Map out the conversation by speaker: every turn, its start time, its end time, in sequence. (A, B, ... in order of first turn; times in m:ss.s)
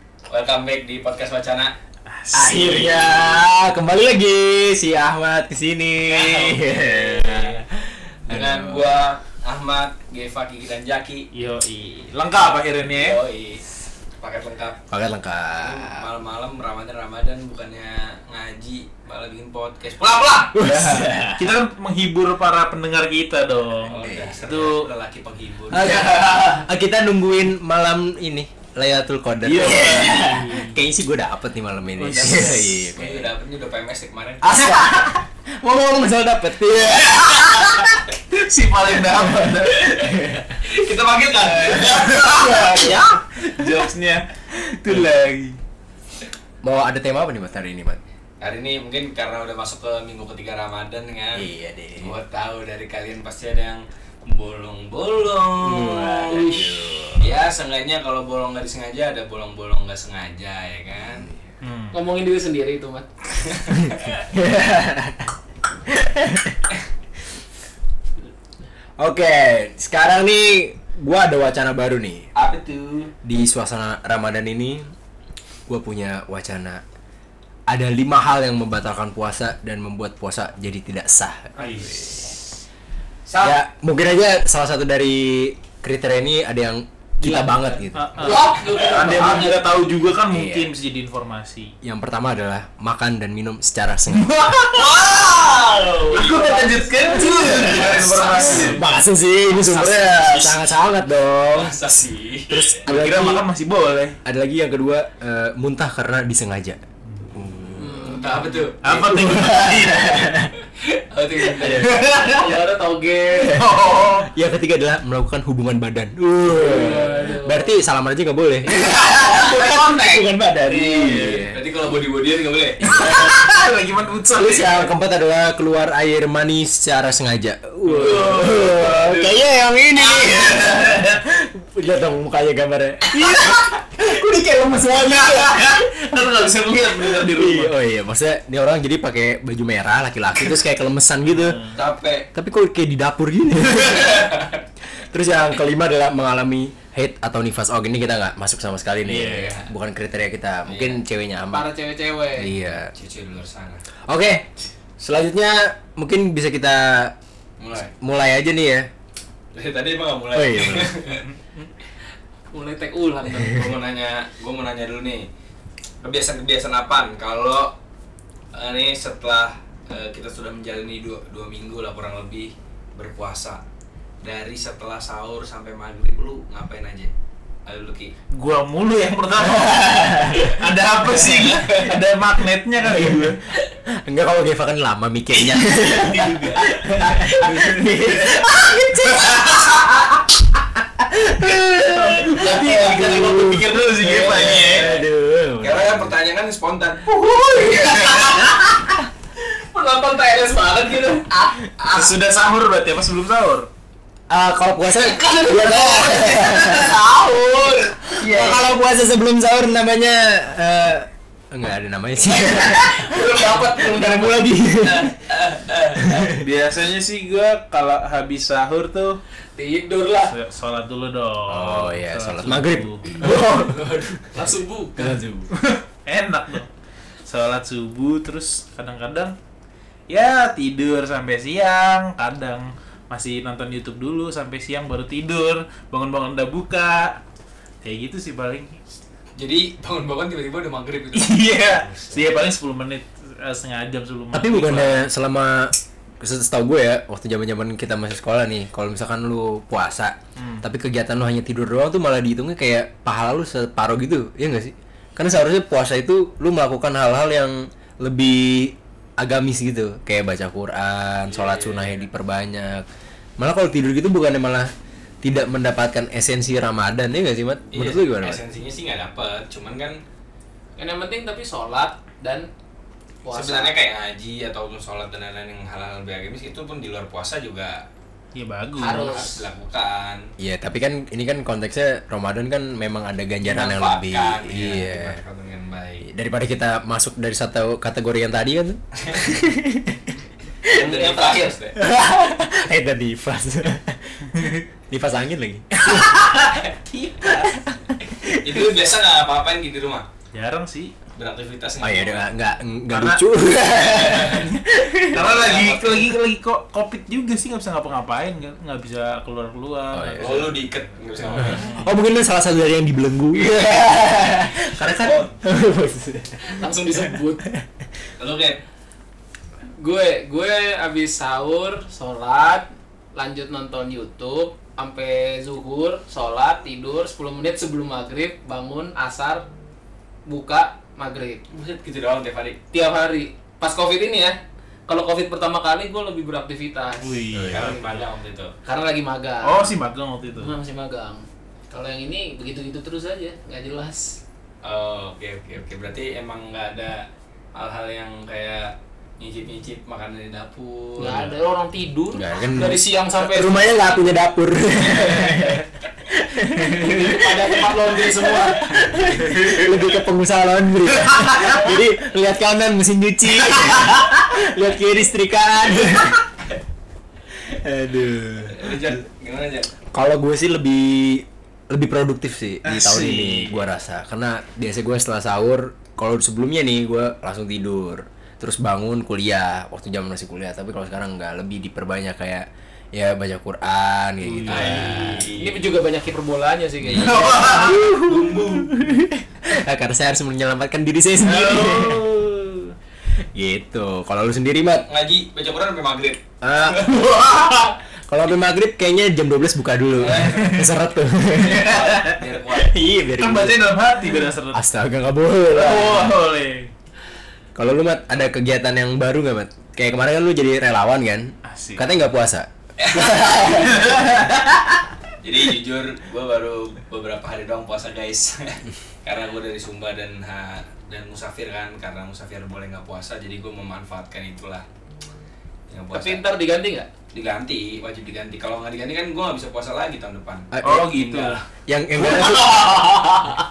0:00.3-0:01.8 A
0:02.1-0:03.4 B
0:02.3-0:08.9 C
0:06.1-0:07.5 A
0:08.3-0:11.3 A
0:11.3-0:13.2 B
0:12.9-0:13.6 A
0:14.2-0:14.8 A
0:14.9-0:16.1 C
0:15.6-0:20.6 A
0:20.6-0:21.5 C
0:20.6-0:24.9 B
0:23.8-0:26.0 A
0:24.0-0:24.4 C
0:25.7-0:33.3 C
0:26.2-0:26.5 B
0:29.4-0:30.7 B
0:29.6-0:30.3 A
0:32.0-0:32.9 B
0:33.0-0:34.5 A
0:34.4-0:38.0 C
0:38.3-0:40.0 B
0:39.8-0:42.6 A
0:40.0-0:40.5 C
0:41.9-0:45.6 B
0:42.2-0:43.0 C
0:46.6-0:48.0 C
0:48.4-0:51.5 A
0:51.3-0:52.2 C
0:52.0-0:56.5 A
0:55.6-0:57.3 C
0:56.3-0:56.7 D
0:57.2-1:01.3 A
1:01.6-1:02.0 B
1:01.9-1:03.1 D
1:03.4-1:04.2 A
1:03.8-1:05.3 C
1:05.9-1:06.6 C
1:09.0-1:12.3 C
1:12.3-1:13.1 A
1:13.2-1:14.8 C
1:15.7-1:16.8 C
1:17.7-1:21.5 C
1:21.6-1:22.4 A
1:23.2-1:23.6 A
1:23.4-1:28.3 C
1:27.2-1:29.6 D
1:27.9-1:31.7 B
1:28.5-1:28.9 A
1:30.3-1:30.7 C
1:31.8-1:34.3 C
1:34.1-1:35.0 B
1:34.7-1:36.5 A
1:36.1-1:38.9 B
1:36.2-1:37.6 D
1:37.1-1:41.8 C
1:37.4-1:38.9 A
1:39.5-1:40.8 A
1:41.5-1:42.7 A
1:42.5-1:43.4 C
1:42.8-1:44.2 B
1:44.2-1:46.8 C
1:47.3-1:48.2 C
1:47.8-1:48.4 D
1:47.8-1:49.0 A
1:48.8-1:50.5 B
1:48.8-1:50.5 C
1:50.7-1:52.0 A
1:51.5-1:52.5 C
1:51.7-1:52.4 B
1:52.2-1:53.6 D
1:53.4-2:01.6 C
1:53.5-1:54.3 B
1:56.5-1:57.7 D
1:58.6-2:00.2 D
2:00.7-2:01.3 D
2:01.0-2:01.4 B
2:01.5-2:02.8 A
2:02.8-2:03.5 C
2:02.9-2:04.9 B
2:04.4-2:16.0 C
2:07.9-2:08.9 B
2:08.0-2:09.4 A
2:10.2-2:11.0 B
2:13.2-2:13.6 B
2:14.9-2:17.8 B
2:17.0-2:21.6 C
2:21.2-2:21.8 B
2:21.8-2:22.3 A
2:22.3-2:24.3 C
2:23.9-2:24.6 A
2:25.1-2:31.7 C
2:29.0-2:29.6 B
2:29.3-2:29.7 A
2:30.7-2:31.0 A
2:31.5-2:32.5 D
2:32.4-2:32.9 C
2:32.9-2:33.8 A
2:34.1-2:34.5 C
2:35.0-2:37.2 C
2:37.6-2:37.9 A
2:37.9-2:38.9 C
2:39.5-2:41.2 A
2:40.3-2:41.0 C
2:41.1-2:41.7 B
2:42.5-2:43.7 D
2:43.4-2:45.3 A
2:46.0-2:47.8 A
2:48.5-2:53.6 A
2:54.2-2:57.1 A
2:57.7-2:58.2 A
2:58.3-3:03.4 B
2:59.5-3:00.6 C
3:01.1-3:01.9 A
3:02.9-3:03.4 C
3:03.9-3:10.2 C
3:05.5-3:06.7 B
3:07.2-3:07.5 D
3:07.4-3:07.8 B
3:09.2-3:09.6 B
3:10.8-3:16.2 C
3:11.4-3:14.9 B
3:12.3-3:13.0 D
3:14.1-3:14.6 D
3:14.3-3:15.0 A
3:15.6-3:18.1 A
3:17.5-3:18.7 D
3:19.6-3:22.1 D
3:21.9-3:23.7 B
3:24.3-3:27.0 C
3:25.0-3:28.7 D
3:28.2-3:35.2 C
3:32.5-3:34.4 D
3:34.8-3:36.3 A
3:36.0-3:36.4 C
3:36.4-3:39.2 B
3:39.6-3:40.3 D
3:40.3-3:43.1 B
3:41.5-3:45.5 C
3:43.7-3:44.1 A
3:44.3-3:45.0 D
3:45.5-3:46.7 B
3:47.3-3:49.4 B
3:50.1-3:57.2 B
3:57.8-3:58.8 B
3:59.4-4:02.3 A
4:01.1-4:05.0 B
4:04.3-4:22.8 C
4:10.4-4:10.6 B
4:21.3-4:22.1 A
4:23.4-4:24.7 C
4:25.2-4:28.4 C
4:27.7-4:30.0 A
4:30.8-4:32.5 D
4:33.2-4:33.7 D
4:33.3-4:37.8 A
4:38.3-4:39.2 B
4:38.8-4:39.5 D
4:38.8-4:40.3 A
4:40.4-4:45.2 C
4:43.4-4:46.1 A
4:46.0-4:50.1 C
4:49.0-4:49.3 A
4:50.7-4:51.8 A
4:50.7-4:51.6 D
4:51.8-4:56.6 C
4:56.2-4:57.5 B
4:57.2-4:58.7 C
4:58.4-5:00.1 A
5:00.3-5:01.0 B
5:01.1-5:02.2 A
5:01.8-5:05.2 C
5:02.9-5:03.2 B
5:03.7-5:04.5 A
5:04.2-5:10.5 B
5:05.1-5:06.1 A
5:09.9-5:10.5 C
5:10.2-5:11.8 A
5:11.2-5:11.8 B
5:11.4-5:16.6 C
5:13.4-5:13.7 A
5:16.5-5:17.4 D
5:18.2-5:18.6 A
5:19.8-5:29.5 D
5:30.3-5:31.4 D
5:31.5-5:32.6 A
5:32.7-5:37.4 D
5:37.0-5:38.1 B
5:37.3-5:37.7 C
5:37.5-5:38.5 A
5:38.6-5:39.7 D
5:39.4-5:40.5 B
5:40.4-5:44.2 D
5:44.6-5:51.2 A
5:51.0-5:53.7 D
5:52.1-6:06.2 C
5:56.6-5:58.7 D
5:59.2-5:59.8 B
6:01.1-6:01.6 B
6:03.4-6:04.0 B
6:07.4-6:09.0 C
6:08.4-6:09.7 A
6:09.9-6:25.3 C
6:12.6-6:13.6 B
6:24.2-6:25.3 B
6:24.5-6:25.6 A
6:25.4-6:27.8 D
6:26.9-6:27.8 B
6:27.0-6:28.7 A
6:27.4-6:32.1 C
6:31.2-6:32.7 B
6:33.3-6:34.8 C
6:34.8-6:36.9 A
6:36.4-6:37.4 C
6:36.9-6:37.7 B
6:38.1-6:43.6 C
6:40.0-6:40.6 A
6:40.2-6:40.7 B
6:41.4-6:42.2 B
6:41.6-6:42.8 A
6:43.2-6:44.6 B
6:44.5-6:46.2 C
6:45.5-6:46.7 B
6:47.6-6:54.2 C
6:51.4-6:51.9 B
6:52.8-6:53.9 A
6:53.7-6:54.7 B
6:55.2-7:04.6 A
7:05.7-7:06.2 A
7:05.9-7:06.9 D
7:07.1-7:11.4 A
7:10.5-7:10.9 C
7:10.6-7:11.4 B
7:11.7-7:12.8 C
7:12.0-7:13.1 B